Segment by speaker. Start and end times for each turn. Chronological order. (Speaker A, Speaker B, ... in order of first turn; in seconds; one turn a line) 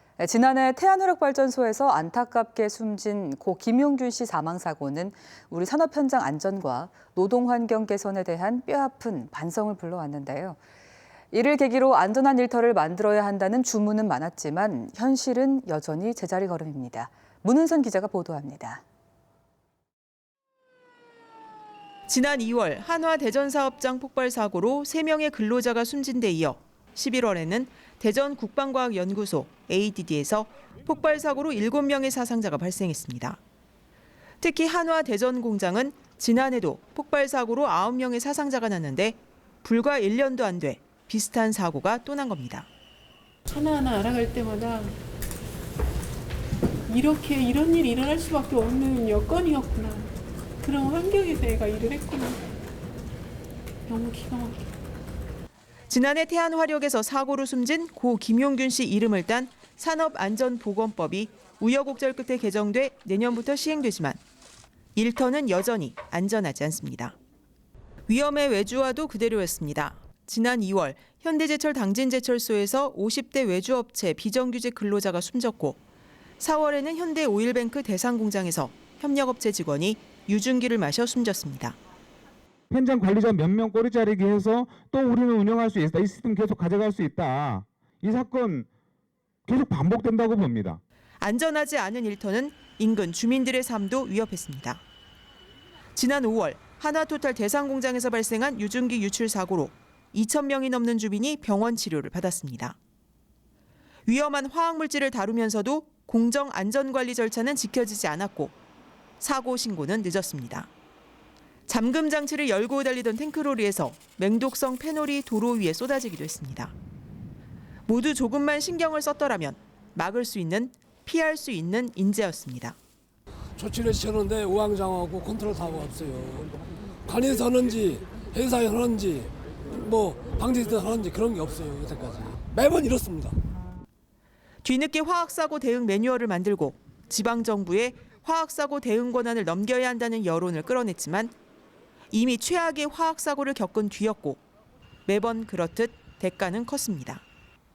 Speaker A: 0.2-10.6
Speaker A: 11.3-18.8
Speaker B: 22.1-33.4
Speaker B: 34.4-42.7
Speaker C: 43.5-45.0
Speaker C: 46.9-50.1
Speaker C: 50.6-52.4
Speaker C: 53.9-54.6
Speaker B: 55.9-64.2
Speaker B: 64.9-67.2
Speaker B: 68.1-75.8
Speaker B: 76.4-81.8
Speaker D: 82.7-88.7
Speaker D: 89.5-90.8
Speaker B: 91.2-94.8
Speaker B: 95.9-102.8
Speaker B: 104.1-108.5
Speaker B: 109.2-110.7
Speaker B: 111.7-116.7
Speaker B: 117.9-122.8
Speaker E: 123.6-126.5
Speaker E: 127.0-133.4
Speaker B: 134.6-141.3
Speaker B: 142.1-144.4
Speaker B: 145.1-147.2